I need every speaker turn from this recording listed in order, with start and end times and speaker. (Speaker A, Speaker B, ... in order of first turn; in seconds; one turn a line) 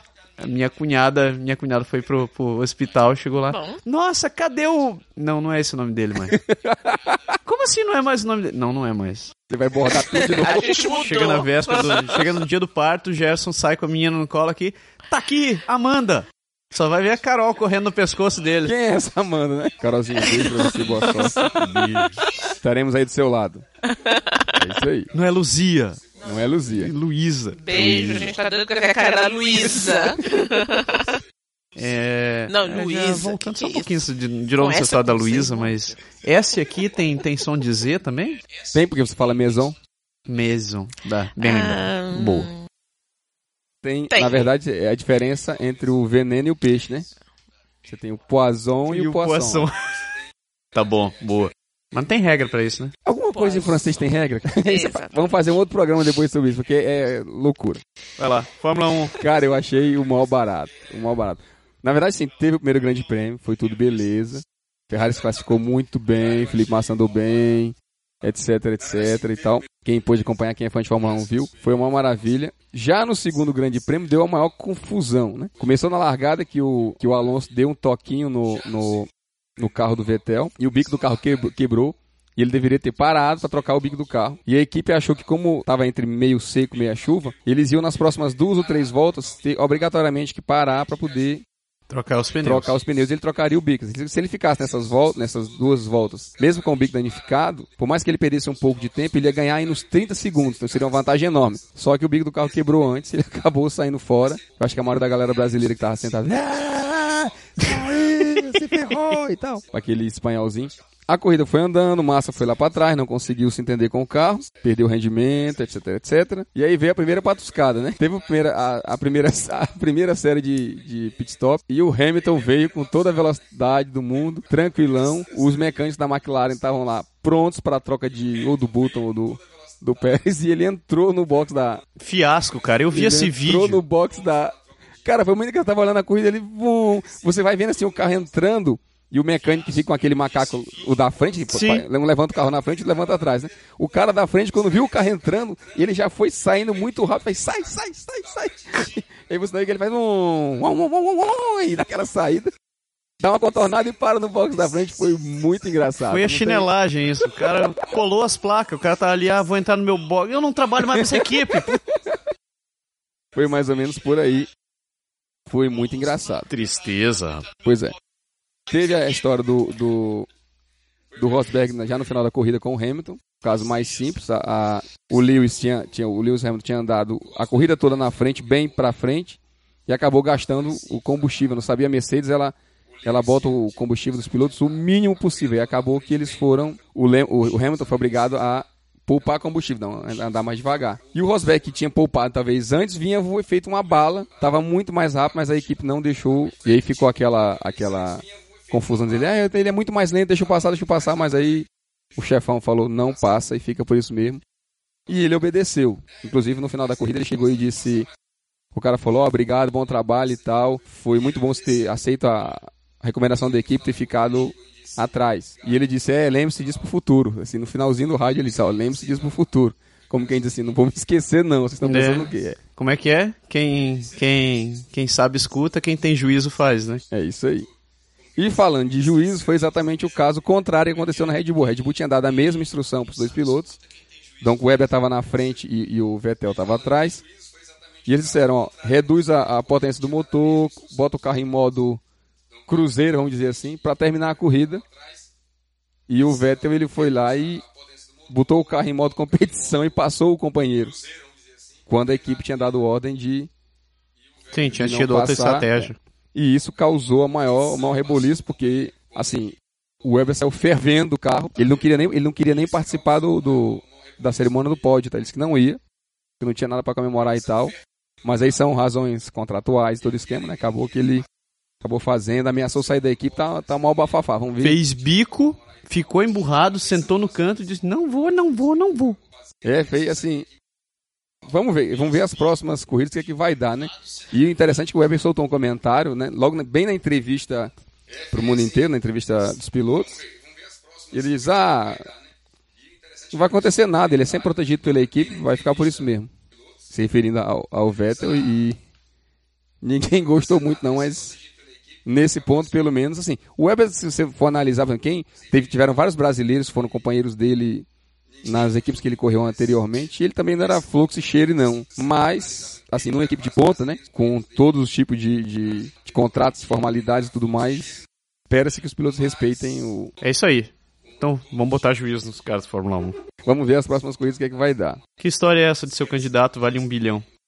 Speaker A: 0.4-6.4
Speaker B: 3.5-3.8
Speaker C: 6.3-7.2
Speaker A: 7.4-9.3
Speaker C: 9.5-10.7
Speaker B: 10.0-12.3
Speaker A: 10.4-18.7
Speaker C: 18.6-21.5
Speaker B: 20.2-21.5
Speaker A: 21.4-22.2
Speaker C: 22.6-23.6
Speaker B: 23.8-24.6
Speaker C: 24.6-25.1
Speaker A: 25.1-26.0
Speaker C: 26.2-26.9
Speaker A: 26.7-28.3
Speaker B: 27.6-31.2
Speaker A: 31.8-38.4
Speaker B: 32.5-33.9
Speaker B: 34.6-35.8
Speaker C: 38.7-39.8
Speaker A: 40.3-42.5
Speaker B: 41.4-42.6
Speaker C: 43.8-47.0
Speaker B: 44.1-44.5
Speaker C: 47.8-49.7
Speaker A: 48.9-49.8
Speaker A: 50.7-52.9
Speaker C: 53.0-57.8
Speaker B: 53.3-53.7
Speaker B: 54.6-55.1
Speaker A: 58.2-59.1
Speaker C: 59.2-91.4
Speaker A: 91.9-92.7
Speaker C: 92.4-131.8
Speaker A: 132.0-133.8
Speaker C: 132.9-152.5
Speaker A: 141.5-141.8
Speaker C: 153.2-156.7
Speaker A: 156.1-161.8
Speaker C: 160.8-162.0
Speaker C: 163.3-164.5
Speaker C: 165.5-166.5
Speaker A: 166.5-167.4
Speaker C: 167.6-167.9
Speaker C: 168.7-170.3
Speaker C: 171.2-204.4
Speaker C: 205.1-208.1
Speaker C: 208.7-222.6
Speaker A: 221.8-227.0
Speaker C: 227.1-227.7
Speaker C: 228.3-233.8
Speaker C: 234.4-237.2
Speaker C: 238.1-242.0
Speaker C: 242.7-244.8
Speaker C: 246.1-247.6
Speaker C: 248.3-251.0
Speaker C: 251.9-253.5
Speaker A: 254.5-256.0
Speaker C: 254.7-265.8
Speaker C: 266.4-271.2
Speaker C: 271.8-274.8
Speaker A: 274.6-279.2
Speaker C: 279.6-280.5
Speaker C: 281.4-287.7
Speaker C: 288.3-290.2
Speaker C: 291.1-292.0
Speaker C: 293.3-296.3
Speaker C: 296.9-298.8
Speaker C: 299.8-301.4
Speaker C: 302.0-307.9
Speaker C: 308.4-320.1
Speaker A: 320.2-323.2
Speaker C: 323.4-325.0
Speaker A: 325.2-327.2